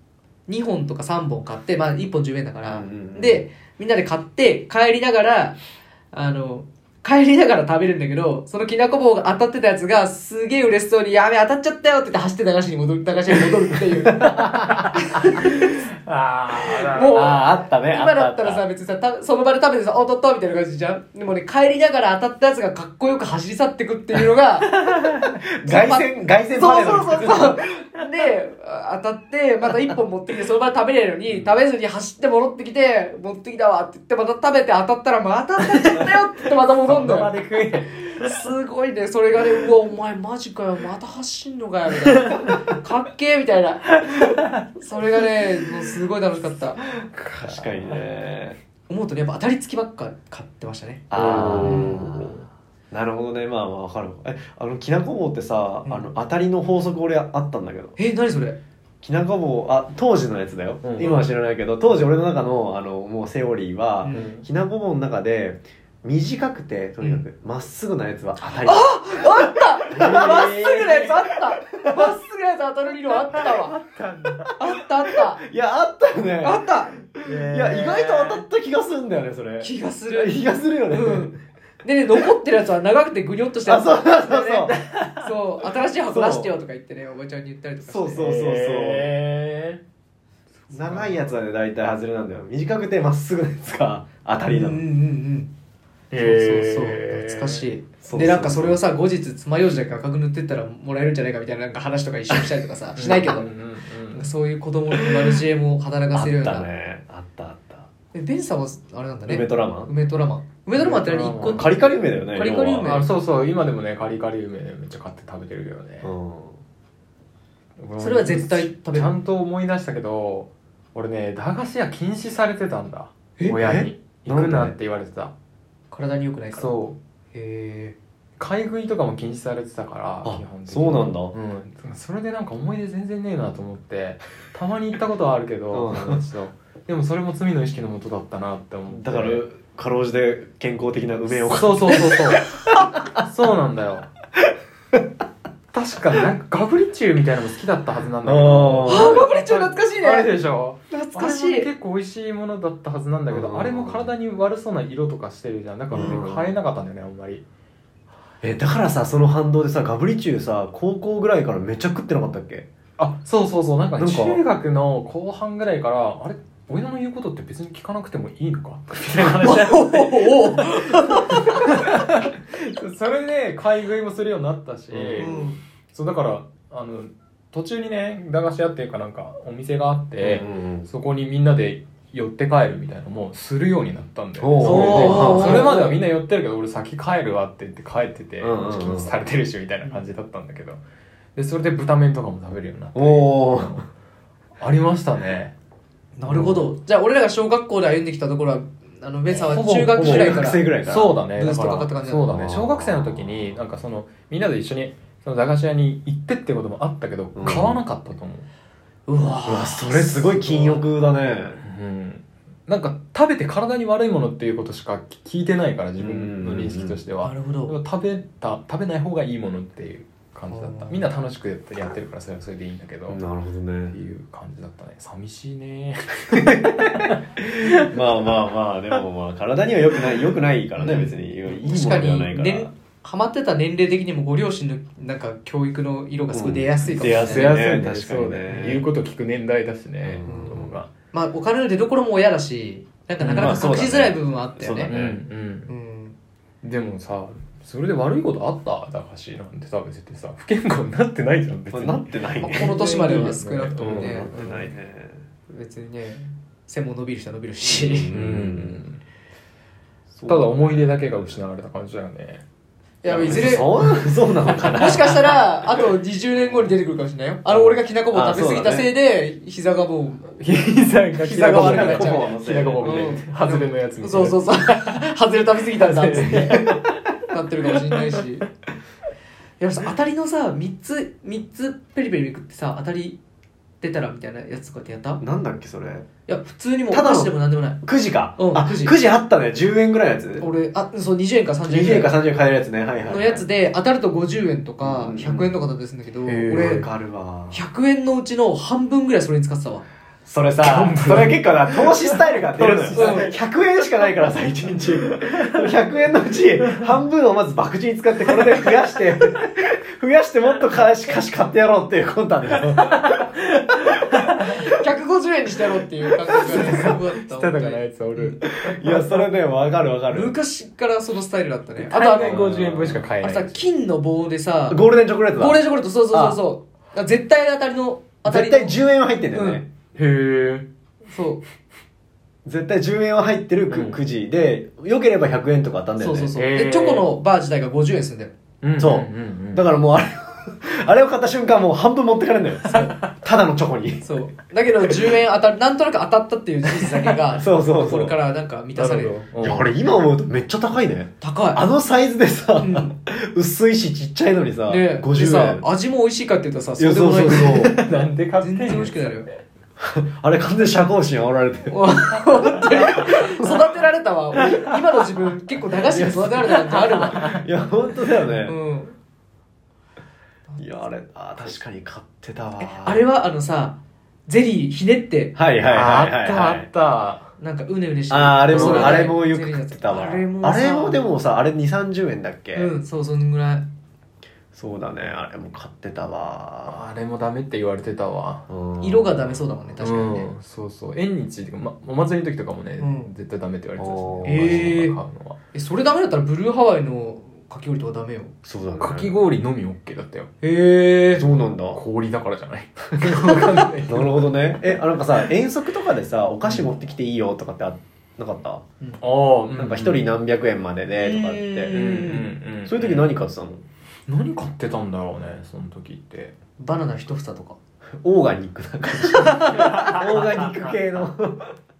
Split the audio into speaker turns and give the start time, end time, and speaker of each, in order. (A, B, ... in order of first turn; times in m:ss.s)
0:00.5-0:05.6 A
0:02.7-0:03.4 B
0:06.1-0:15.8 A
0:14.6-0:14.8 B
0:15.6-0:17.4 C
0:16.8-0:18.6 B
0:16.9-0:24.7 A
0:24.9-0:27.8 B
0:25.6-0:37.3 A
0:35.6-0:36.2 C
0:36.8-0:38.4 C
0:38.2-0:46.8 A
0:47.0-0:48.0 C
0:47.4-0:48.6 B
0:48.9-0:52.0 A
0:51.1-0:52.4 B
0:51.1-0:52.4 C
0:52.9-0:58.0 B
0:55.8-0:56.1 A
0:58.0-0:58.6 A
0:59.0-1:10.7 B
1:00.8-1:01.3 C
1:04.0-1:04.3 A
1:04.1-1:04.4 C
1:08.6-1:13.8 A
1:09.9-1:11.2 C
1:11.7-1:12.1 B
1:13.2-1:14.5 C
1:14.6-1:15.4 A
1:15.4-1:21.4 B
1:16.4-1:17.0 A
1:17.2-1:18.4 C
1:19.6-1:28.3 A
1:23.6-1:24.8 B
1:24.9-1:25.3 C
1:26.1-1:26.5 B
1:27.8-1:29.1 B
1:28.2-1:29.8 C
1:30.6-1:31.3 C
1:30.7-1:34.8 B
1:34.5-1:35.5 A
1:36.1-1:37.6 C
1:36.1-1:43.5 A
1:38.0-1:38.8 B
1:43.0-1:44.3 C
1:44.1-1:46.7 A
1:44.9-1:45.3 B
1:46.1-1:47.9 B
1:48.1-1:51.7 A
1:49.3-1:49.9 B
1:50.8-1:51.8 C
1:51.3-1:52.9 B
1:52.3-1:53.1 A
1:52.8-1:56.1 C
1:56.0-1:56.6 B
1:57.8-2:05.3 C
1:58.0-1:59.1 A
2:03.4-2:04.7 B
2:05.9-2:06.8 A
2:06.5-2:07.0 C
2:07.3-2:08.0 A
2:08.4-2:19.4 C
2:10.2-2:11.3 B
2:15.7-2:16.2 B
2:18.9-2:22.9 B
2:21.4-2:24.1 C
2:25.7-2:37.4 C
2:28.2-2:29.2 B
2:28.8-2:30.3 A
2:30.9-2:31.7 A
2:33.3-2:34.1 B
2:35.9-2:36.5 B
2:35.9-2:36.2 A
2:38.4-2:42.7 B
2:43.0-2:55.4 C
2:44.0-2:44.4 B
2:49.4-2:51.5 A
2:54.9-2:55.5 B
2:55.2-2:55.6 A
2:55.9-3:10.8 C
3:00.2-3:00.9 B
3:04.4-3:05.9 B
3:04.6-3:05.9 A
3:08.4-3:09.1 B
3:11.4-3:13.4 C
3:12.9-3:13.8 B
3:14.6-3:15.5 C
3:16.2-3:20.7 A
3:16.2-3:16.7 C
3:19.3-3:28.5 C
3:20.0-3:21.2 B
3:21.3-3:22.4 A
3:22.3-3:23.2 B
3:27.3-3:27.8 B
3:29.1-3:30.8 A
3:29.4-3:31.6 B
3:31.6-3:43.2 C
3:36.0-3:37.0 B
3:37.2-3:37.8 A
3:40.5-3:41.1 A
3:43.1-3:44.0 B
3:43.9-3:48.1 C
3:46.4-3:47.0 B
3:47.8-3:52.7 B
3:50.8-3:57.6 A
3:56.3-3:58.8 B
3:56.8-4:00.9 C
4:00.0-4:00.8 B
4:00.2-4:04.9 A
4:03.2-4:03.6 C
4:03.3-4:05.2 B
4:04.8-4:05.7 C
4:05.7-4:06.1 A
4:06.6-4:14.6 C
4:11.7-4:15.2 B
4:12.4-4:14.6 A
4:15.5-4:18.1 A
4:17.6-4:18.8 B
4:18.1-4:19.0 C
4:20.1-4:21.4 B
4:20.2-4:22.4 C
4:23.0-4:23.9 A
4:23.0-4:25.4 B
4:23.2-4:23.9 C
4:24.6-4:30.4 A
4:27.5-4:28.9 B
4:30.4-4:35.1 C
4:31.2-4:36.6 A
4:31.3-4:33.1 B
4:35.8-4:37.0 C
4:37.3-4:38.5 A
4:39.6-4:43.2 A
4:43.8-4:45.2 A
4:45.2-4:46.1 B
4:46.3-4:47.8 A
4:46.9-4:50.5 B
4:48.4-4:49.0 A
4:50.4-4:52.2 A
4:51.6-4:53.4 B
4:53.0-4:56.9 A
4:54.8-4:55.6 B
4:56.2-4:56.9 C
4:56.4-4:57.6 B
4:57.5-4:59.8 A
5:00.2-5:13.1 B
5:00.6-5:03.4 C
5:02.9-5:03.3 A
5:05.2-5:05.6 C
5:12.6-5:14.5 C
5:14.4-5:18.4 A
5:16.3-5:19.3 C
5:18.6-5:20.3 B
5:20.1-5:22.4 A
5:21.8-5:23.6 C
5:22.2-5:23.1 B
5:23.2-5:28.8 A
5:24.7-5:26.4 B
5:28.2-5:29.7 B
5:29.3-5:29.6 A
5:29.9-5:30.7 C
5:31.0-5:31.4 A
5:32.4-5:36.3 B
5:33.7-5:34.0 C
5:36.0-5:38.3 A
5:36.4-5:37.1 C
5:38.6-5:39.7 C
5:38.8-5:44.0 B
5:44.0-5:49.2 A
5:47.4-5:48.2 B
5:48.7-5:49.7 C
5:49.4-5:55.6 B
5:51.2-5:51.7 A
5:52.6-5:52.9 A
5:54.7-5:57.8 A
5:56.8-5:57.8 B
5:57.4-5:59.3 C
5:58.4-5:59.3 A
5:59.8-6:03.7 B
6:01.7-6:07.4 A
6:05.9-6:07.4 C
6:06.8-6:08.6 B
6:08.4-6:09.0 A
6:10.5-6:11.6 A
6:10.6-6:13.0 B
6:12.6-6:15.3 A
6:15.4-6:16.7 B
6:15.7-6:17.3 C
6:17.4-6:21.0 A
6:18.1-6:22.7 B
6:18.5-6:19.1 C
6:22.5-6:23.7 A
6:24.5-6:26.8 B
6:26.6-6:28.5 C
6:28.5-6:29.4 B
6:28.8-6:30.3 A
6:29.8-6:35.4 C
6:32.8-6:33.1 A
6:33.8-6:34.6 B
6:34.2-6:35.0 A
6:35.5-6:38.3 A
6:38.4-6:39.2 B
6:38.8-6:40.3 C
6:40.4-6:41.2 A
6:41.1-6:41.8 B
6:41.7-6:44.3 C
6:43.9-6:48.6 B
6:46.4-6:46.7 C
6:49.0-6:50.0 C
6:49.5-6:51.8 B
6:51.0-6:52.3 A
6:51.7-6:53.1 C
6:52.6-6:53.6 B
6:54.1-6:56.3 C
6:56.6-6:57.6 A
6:58.0-7:01.4 B
6:59.1-6:59.7 A
6:59.6-7:00.1 C